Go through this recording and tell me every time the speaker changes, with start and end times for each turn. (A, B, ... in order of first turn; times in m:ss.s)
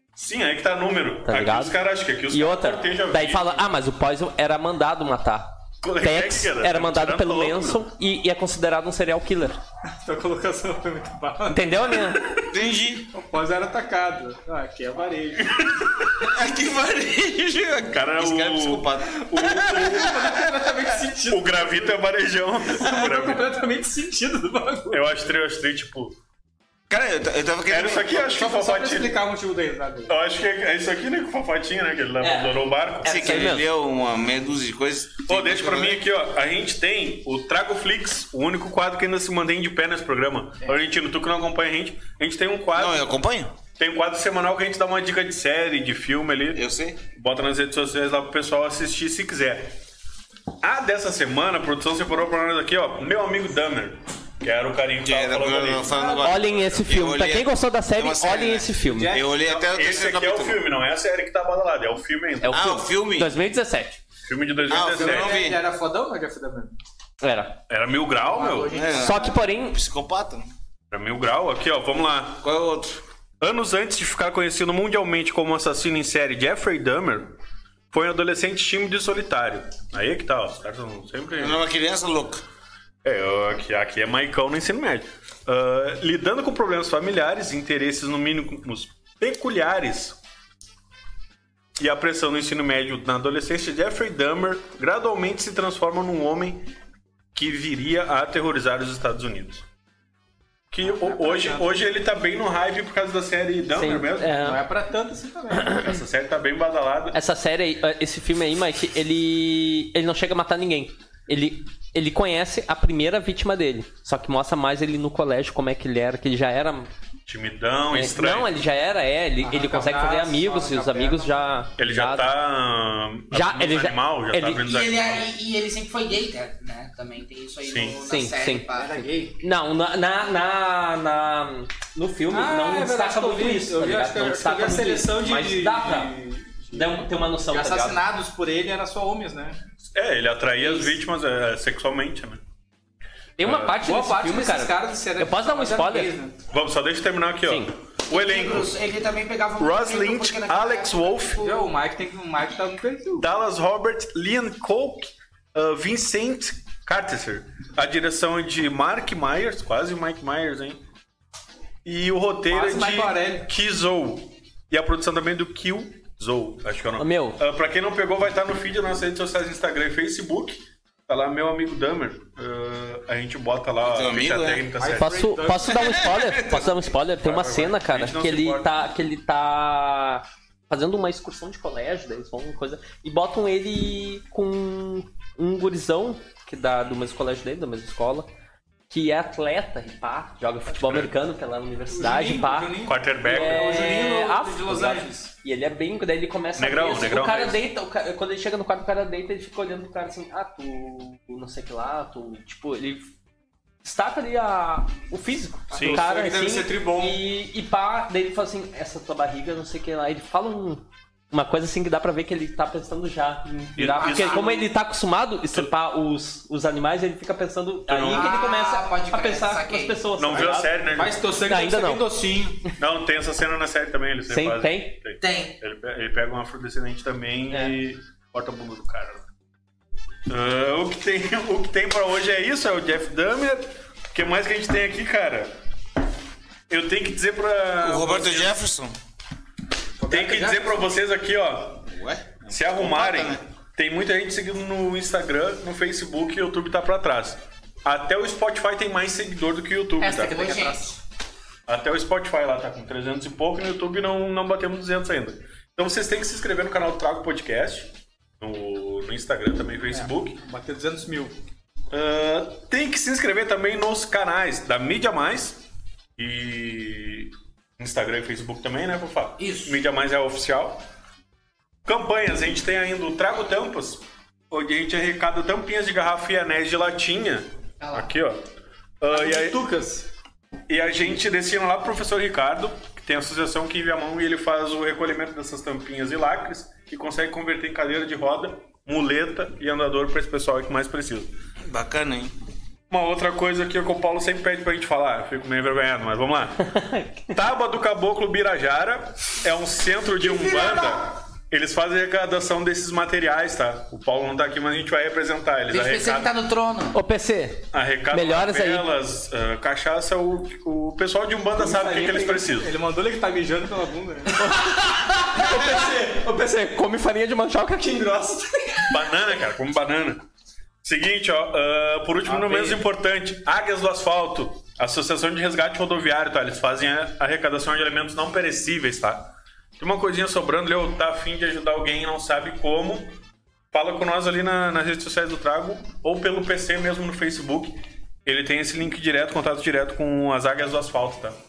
0:00.2-0:03.7 A
0:01.3-0:01.8 B
0:02.3-0:09.6 B
0:05.8-0:07.9 A
0:10.0-0:12.0 C
0:11.5-0:12.3 B
0:12.4-0:13.1 D
0:13.1-0:15.6 C
0:15.6-0:15.9 A
0:16.2-0:20.4 D
0:17.9-0:20.2 A
0:19.9-0:22.0 C
0:21.3-0:23.5 A
0:22.7-0:25.0 C
0:24.9-0:26.2 A
0:26.9-0:28.2 D
0:27.7-0:29.2 A
0:28.2-0:30.2 C
0:30.1-0:33.4 A
0:32.2-0:33.7 B
0:33.0-0:36.0 D
0:35.3-0:43.1 A
0:42.7-0:43.5 D
0:43.8-0:49.7 A
0:46.5-0:47.0 D
0:50.6-0:56.8 A
0:55.0-1:00.6 D
0:55.9-0:56.3 C
0:56.2-0:59.1 B
0:58.9-0:59.4 C
0:59.4-1:02.7 A
1:02.4-1:04.0 B
1:02.5-1:03.3 D
1:04.3-1:05.4 A
1:04.7-1:05.6 D
1:04.7-1:06.8 C
1:07.2-1:07.6 B
1:07.7-1:08.8 A
1:08.3-1:09.4 C
1:08.7-1:10.5 D
1:09.0-1:09.8 B
1:10.9-1:12.4 A
1:12.4-1:13.0 D
1:13.4-1:17.3 A
1:17.9-1:21.6 A
1:21.3-1:22.4 D
1:23.0-1:30.2 A
1:31.8-1:36.7 A
1:37.4-1:39.6 A
1:40.7-1:44.4 A
1:40.8-1:41.7 C
1:43.8-1:44.6 B
1:44.4-1:45.8 C
1:45.7-1:47.2 A
1:47.1-1:56.9 B
1:57.3-1:58.5 A
1:57.9-2:02.3 B
1:59.4-2:01.6 C
2:01.8-2:05.2 A
2:03.3-2:04.7 B
2:04.6-2:09.0 E
2:07.6-2:08.0 A
2:08.0-2:08.7 B
2:08.7-2:09.4 C
2:09.4-2:16.1 B
2:12.3-2:19.6 C
2:16.7-2:18.0 B
2:19.9-2:22.4 A
2:20.6-2:21.0 B
2:23.4-2:26.2 B
2:23.4-2:23.8 A
2:23.8-2:26.4 C
2:26.5-2:28.7 A
2:27.4-2:27.7 B
2:28.1-2:31.7 E
2:29.6-2:31.4 A
2:31.4-2:33.3 C
2:33.2-2:40.8 A
2:41.8-2:55.3 A
2:42.5-2:43.5 C
2:47.0-2:47.4 B
2:53.8-2:54.7 D
2:54.8-2:56.0 C
2:55.0-3:08.3 B
2:55.7-2:56.5 D
2:57.2-2:58.8 A
3:08.9-3:23.1 B
3:10.8-3:11.1 A
3:11.9-3:15.3 C
3:12.9-3:13.9 A
3:16.6-3:17.6 A
3:23.8-3:40.8 B
3:25.7-3:27.2 C
3:25.7-3:26.0 A
3:33.8-3:34.6 A
3:34.0-3:34.6 E
3:37.9-3:38.3 A
3:38.0-3:40.1 E
3:40.2-3:41.2 A
3:40.3-3:42.7 C
3:41.4-3:42.1 B
3:42.8-3:49.2 A
3:44.3-3:45.0 B
3:45.2-3:45.6 E
3:50.3-3:55.5 A
3:56.7-3:58.6 A
3:57.8-3:59.0 D
4:00.0-4:00.9 C
4:00.1-4:01.9 A
4:01.9-4:03.4 D
4:02.5-4:10.5 A
4:10.0-4:11.0 E
4:10.0-4:10.8 C
4:11.7-4:17.9 A
4:18.4-4:20.4 A
4:19.9-4:21.3 C
4:21.9-4:25.6 A
4:26.2-4:30.8 A
4:29.4-4:29.8 E
4:31.9-4:38.4 A
4:37.8-4:38.1 E
4:39.0-4:39.6 A
4:39.1-4:40.1 C
4:40.7-4:51.3 A
4:51.7-4:52.3 D
4:52.9-4:56.7 A
4:56.6-4:57.4 B
4:57.3-5:06.3 A
5:00.2-5:01.0 E
5:05.7-5:07.0 E
5:06.9-5:08.9 B
5:07.7-5:12.7 A
5:11.7-5:14.5 C
5:11.8-5:12.3 B
5:14.4-5:19.1 B
5:18.9-5:20.2 A
5:20.8-5:33.1 A
5:22.3-5:22.7 C
5:33.7-5:41.4 A